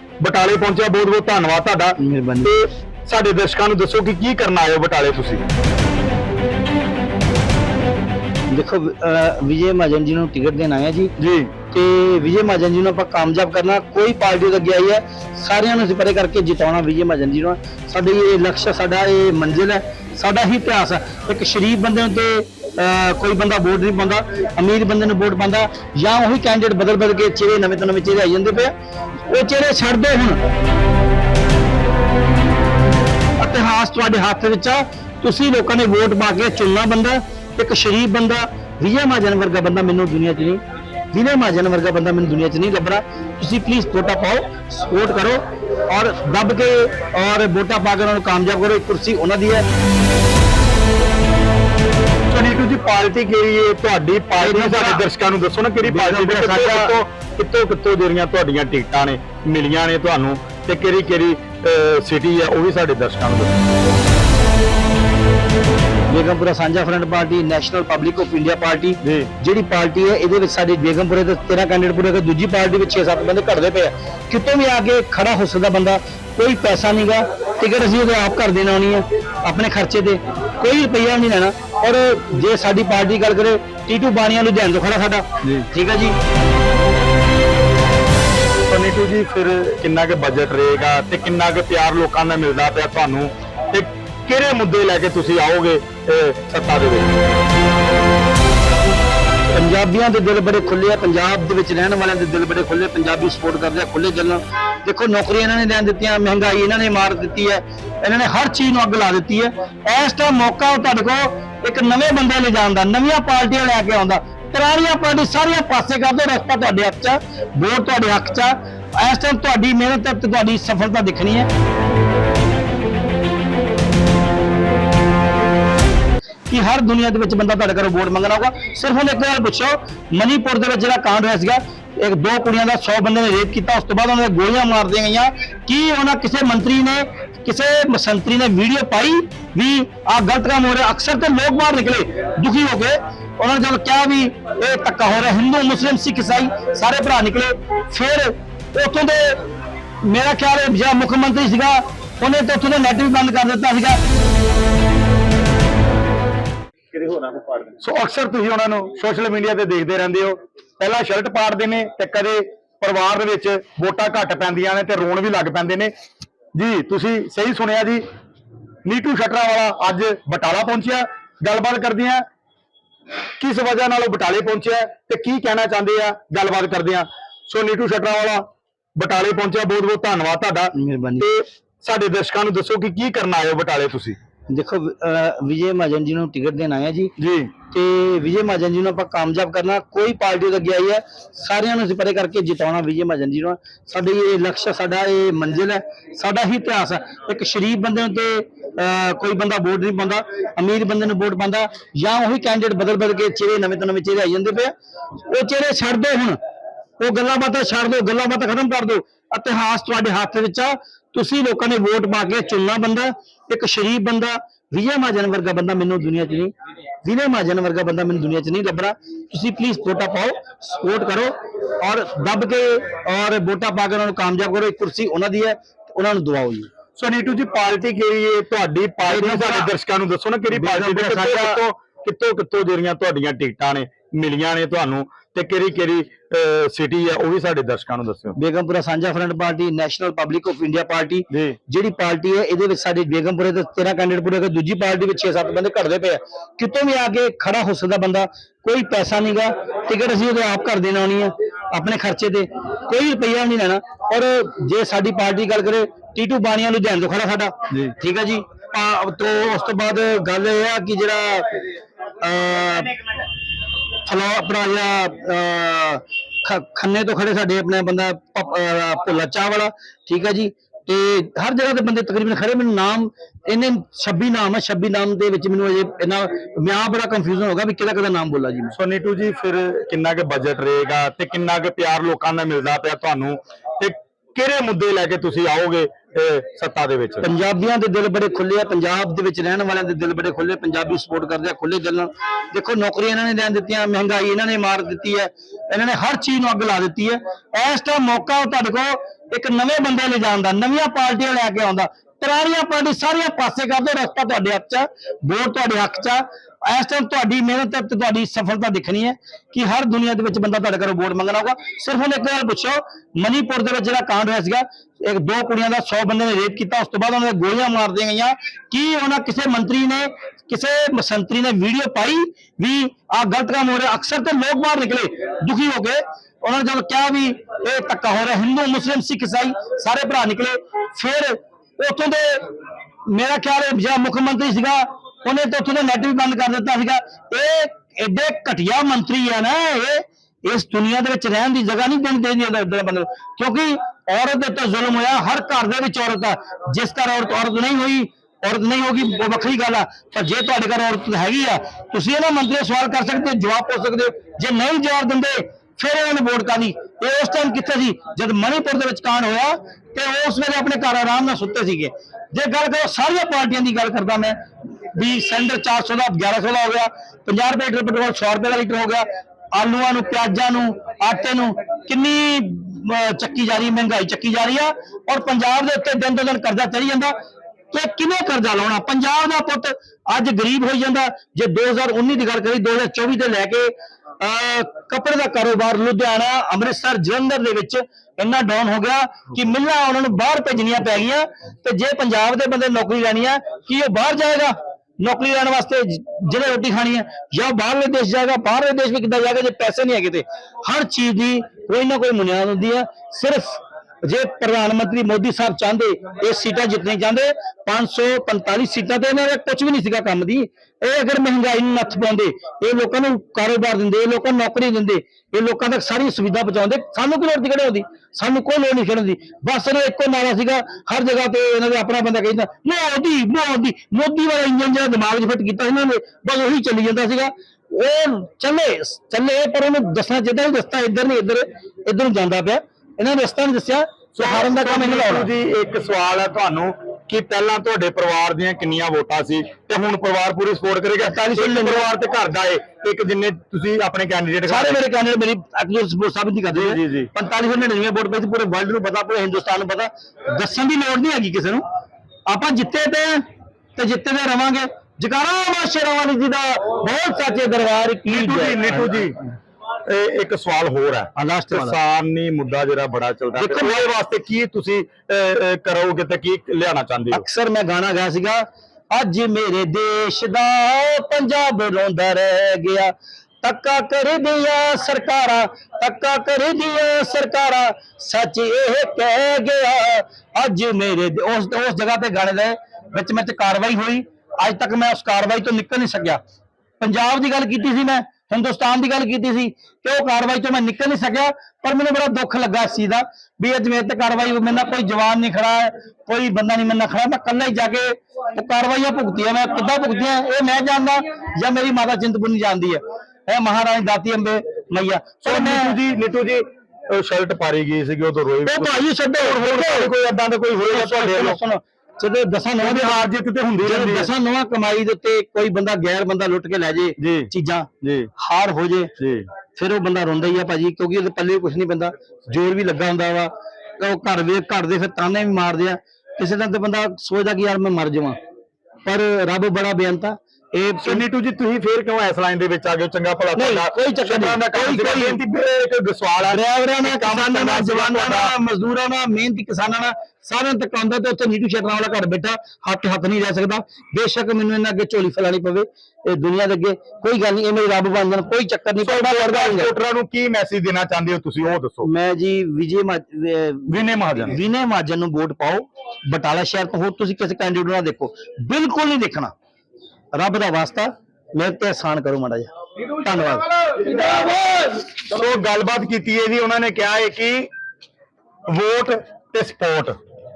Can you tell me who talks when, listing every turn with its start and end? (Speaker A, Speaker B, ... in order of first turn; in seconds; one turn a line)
Speaker A: 0.2-5.4
Speaker B: 2.0-2.5
Speaker B: 8.5-11.1
Speaker A: 11.2-11.5
Speaker B: 11.7-28.7
Speaker B: 29.3-30.4
Speaker B: 33.4-40.6
Speaker B: 41.1-49.6
Speaker A: 52.3-63.5
Speaker B: 54.4-55.0
Speaker B: 55.9-56.9
Speaker B: 66.1-86.2
Speaker A: 69.0-69.3
Speaker A: 88.7-97.2
Speaker B: 99.5-121.5
Speaker B: 126.5-149.4
Speaker B: 150.0-154.0
Speaker A: 157.0-165.9
Speaker A: 166.5-168.0
Speaker A: 168.8-172.2
Speaker A: 173.4-184.2
Speaker B: 180.7-181.2
Speaker B: 184.5-187.1
Speaker A: 187.2-187.5
Speaker B: 187.7-204.7
Speaker B: 205.3-206.4
Speaker B: 207.0-216.5
Speaker B: 217.0-226.7
Speaker A: 227.0-238.3
Speaker B: 229.1-229.7
Speaker B: 230.5-231.6
Speaker B: 238.3-261.6
Speaker B: 262.2-263.0
Speaker B: 264.1-278.7
Speaker A: 278.7-287.2
Speaker B: 287.2-332.5
Speaker B: 333.1-377.1
Speaker B: 377.7-435.3
Speaker A: 434.1-444.8
Speaker B: 441.0-441.9
Speaker B: 444.4-451.6
Speaker A: 446.5-447.1
Speaker B: 452.3-453.2
Speaker B: 453.8-459.1
Speaker A: 458.1-459.2
Speaker A: 459.9-467.2
Speaker B: 461.1-461.8
Speaker B: 463.4-463.9
Speaker B: 467.1-486.2
Speaker B: 486.8-505.8
Speaker A: 505.2-511.4
Speaker B: 508.4-509.9
Speaker B: 510.5-513.0
Speaker A: 512.6-514.1
Speaker B: 513.6-518.9
Speaker A: 517.0-517.3
Speaker A: 517.8-518.1
Speaker A: 519.0-519.3
Speaker B: 519.5-528.2
Speaker B: 528.8-531.0
Speaker A: 530.8-538.3
Speaker B: 533.3-535.2
Speaker B: 536.3-549.7
Speaker A: 548.8-551.9
Speaker B: 551.8-559.3
Speaker A: 553.7-554.4
Speaker B: 560.1-564.2
Speaker A: 563.8-567.5
Speaker A: 568.5-570.0